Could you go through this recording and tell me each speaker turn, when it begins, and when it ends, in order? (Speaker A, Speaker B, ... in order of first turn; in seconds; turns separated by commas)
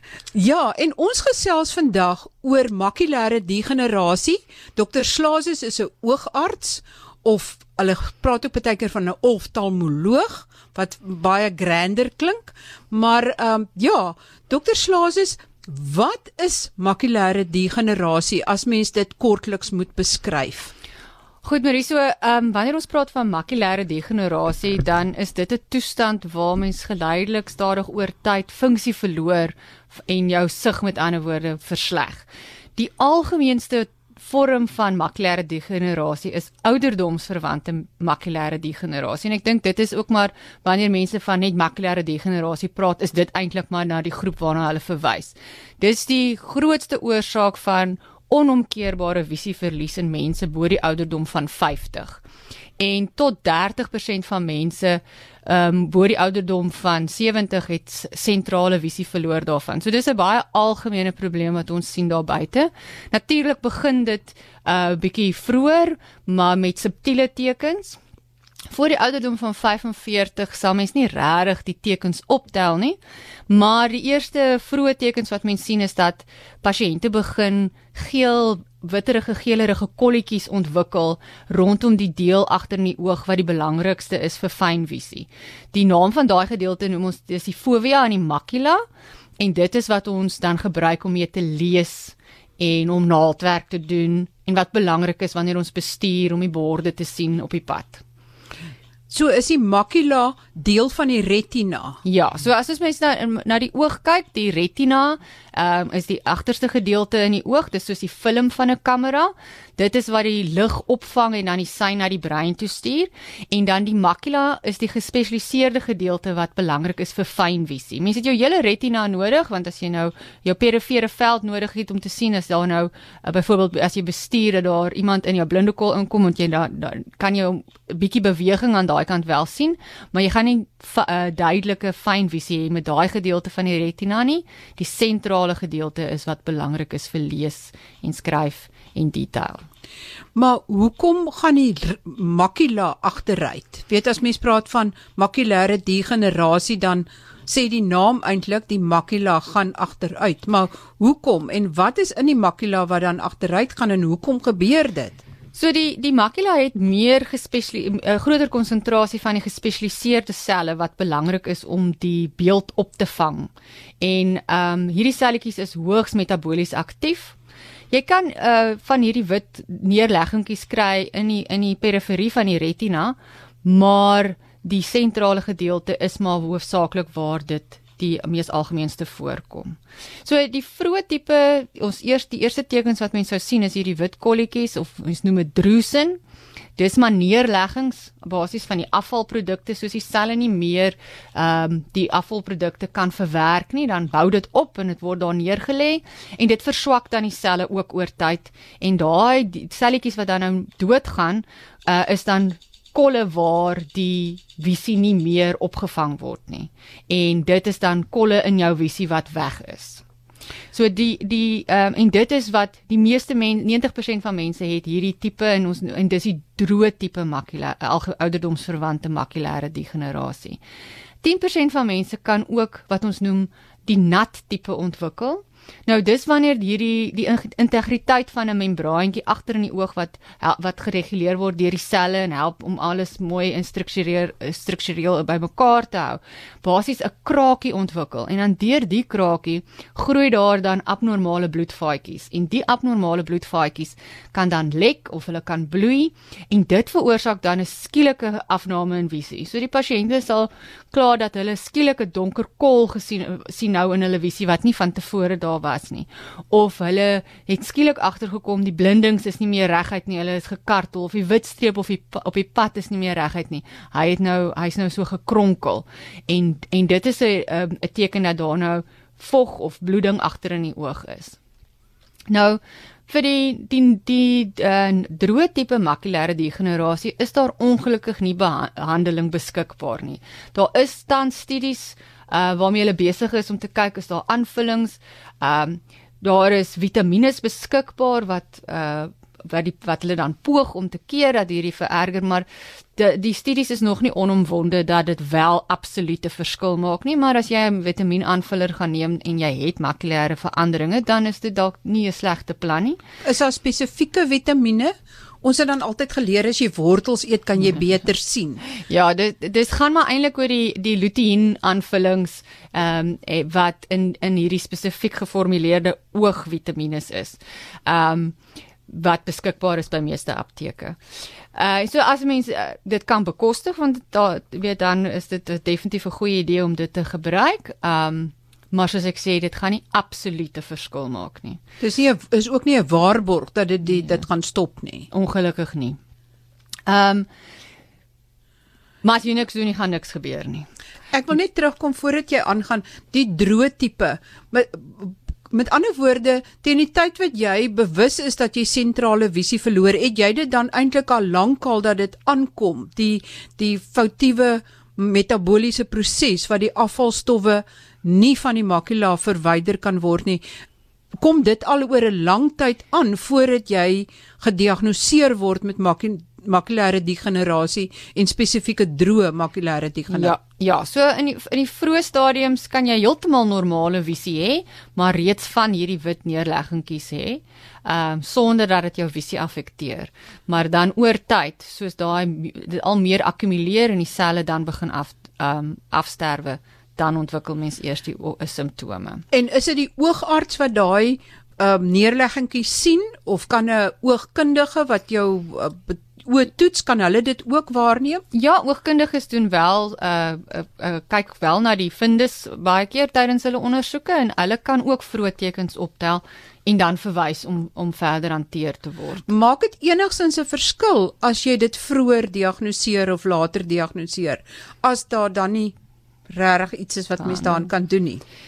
Speaker A: 0.3-20.7, Speaker B: 21.4-52.2, Speaker B: 52.8-68.0, Speaker B: 68.7-73.0, Speaker B: 73.5-88.8, Speaker B: 89.4-98.0, Speaker A: 99.1-102.0, Speaker B: 102.0-139.6, Speaker A: 140.3-155.2, Speaker B: 155.5-167.3, Speaker B: 167.9-186.2, Speaker B: 186.8-210.0, Speaker B: 210.7-220.6, Speaker B: 221.2-271.4, Speaker B: 272.3-292.4, Speaker B: 292.9-303.0, Speaker A: 303.2-308.6, Speaker B: 308.8-318.4, Speaker B: 318.9-321.0, Speaker B: 321.5-331.6, Speaker A: 331.8-335.1, Speaker B: 335.1-336.0, Speaker B: 336.9-337.3, Speaker B: 339.0-340.7, Speaker A: 341.1-360.4, Speaker A: 361.2-370.4, Speaker B: 370.1-389.2, Speaker A: 389.3-398.2, Speaker B: 398.3-409.2, Speaker A: 409.3-415.8, Speaker A: 416.3-418.2